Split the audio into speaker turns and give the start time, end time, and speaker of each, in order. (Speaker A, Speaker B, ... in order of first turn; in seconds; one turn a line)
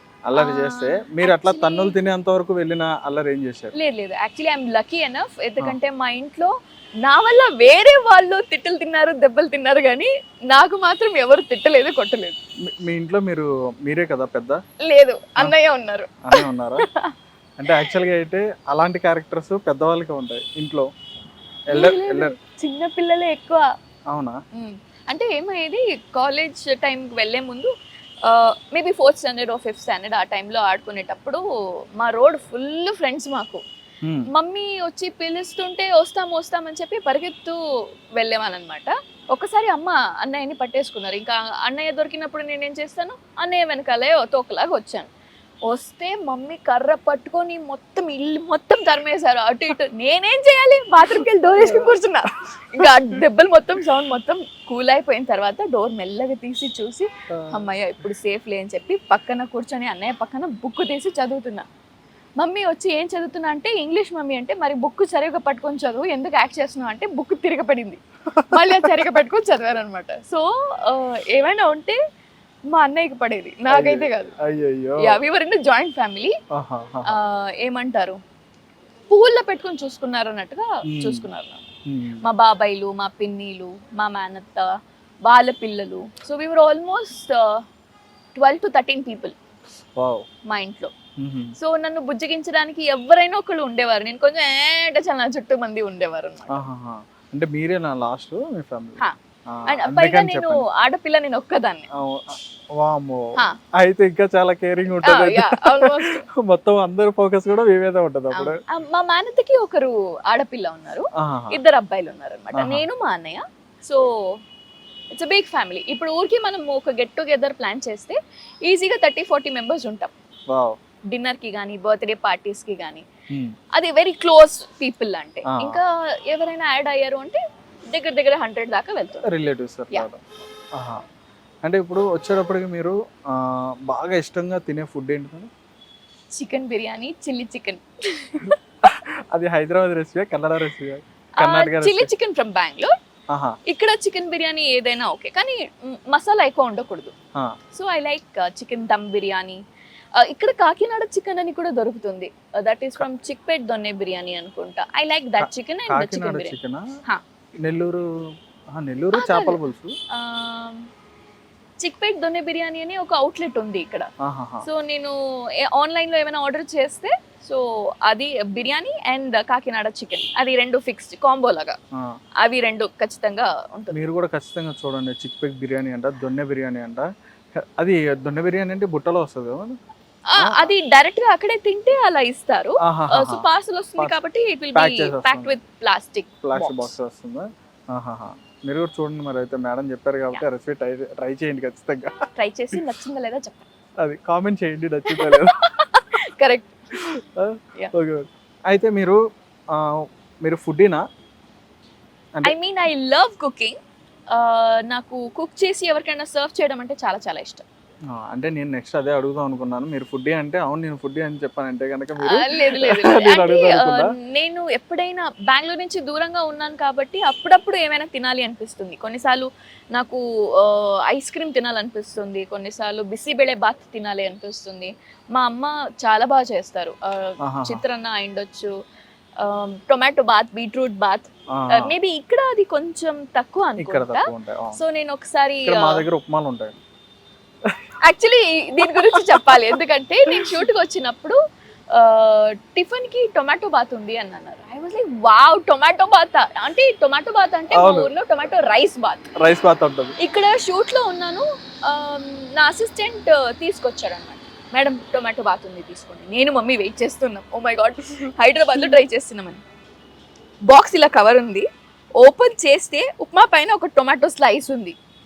Speaker A: 0.2-3.7
Speaker B: 0.3-1.9
Speaker B: 3.7-6.5
Speaker B: 7.0-12.4
Speaker A: 12.7-14.6
Speaker B: 14.8-17.1
Speaker A: 16.2-16.8
Speaker A: 17.6-20.9
Speaker A: 21.7-22.3
Speaker B: 21.7-23.7
Speaker B: 24.5-27.7
Speaker B: 28.2-31.4
Speaker B: 32.0-33.6
Speaker A: 34.0-34.3
Speaker B: 34.3-37.6
Speaker B: 38.1-45.1
Speaker B: 45.6-61.6
Speaker A: 51.6-51.9
Speaker A: 57.3-57.6
Speaker B: 62.4-72.0
Speaker A: 68.3-68.9
Speaker B: 72.7-74.3
Speaker A: 73.7-75.2
Speaker B: 75.0-76.3
Speaker A: 76.5-77.2
Speaker B: 77.0-78.2
Speaker B: 79.1-81.6
Speaker A: 80.9-81.3
Speaker A: 81.8-82.2
Speaker B: 82.2-84.7
Speaker B: 85.2-87.6
Speaker B: 88.3-89.3
Speaker A: 90.0-90.2
Speaker B: 90.5-90.9
Speaker A: 91.2-91.5
Speaker B: 91.6-96.6
Speaker A: 96.5-100.6
Speaker B: 99.7-101.9
Speaker A: 101.9-108.6
Speaker B: 104.9-106.2
Speaker B: 108.3-114.4
Speaker A: 111.1-111.6
Speaker A: 112.5-112.8
Speaker B: 115.1-120.1
Speaker A: 120.5-120.8
Speaker B: 121.1-123.0
Speaker B: 123.7-129.2
Speaker A: 125.5-125.8
Speaker A: 129.2-131.0
Speaker A: 131.6-135.5
Speaker B: 136.3-138.6
Speaker A: 138.5-142.1
Speaker B: 141.4-142.9
Speaker A: 143.3-143.6
Speaker B: 143.7-147.1
Speaker B: 147.7-149.6
Speaker B: 150.2-157.2
Speaker A: 155.4-156.8
Speaker A: 157.6-158.1
Speaker A: 158.7-159.9
Speaker B: 159.1-160.9
Speaker B: 161.8-164.1
Speaker A: 164.2-164.7
Speaker B: 164.6-171.8
Speaker B: 172.4-173.9
Speaker A: 173.9-177.1
Speaker A: 177.8-179.7
Speaker B: 180.3-187.0
Speaker A: 180.4-180.7
Speaker A: 182.8-183.4
Speaker A: 184.7-185.6
Speaker A: 186.4-192.1
Speaker B: 192.3-193.7
Speaker A: 194.0-195.6
Speaker B: 195.1-196.7
Speaker A: 197.1-199.2
Speaker A: 199.7-201.0
Speaker B: 202.4-203.8
Speaker B: 204.3-207.6
Speaker A: 208.1-214.1
Speaker B: 212.2-228.7
Speaker A: 227.4-227.8
Speaker B: 229.4-236.0
Speaker A: 231.5-231.9
Speaker A: 233.8-234.8
Speaker A: 235.7-236.8
Speaker B: 238.0-241.4
Speaker A: 238.8-239.7
Speaker B: 241.9-249.3
Speaker A: 247.7-248.1
Speaker A: 249.4-250.2
Speaker B: 250.2-259.6
Speaker B: 260.7-264.9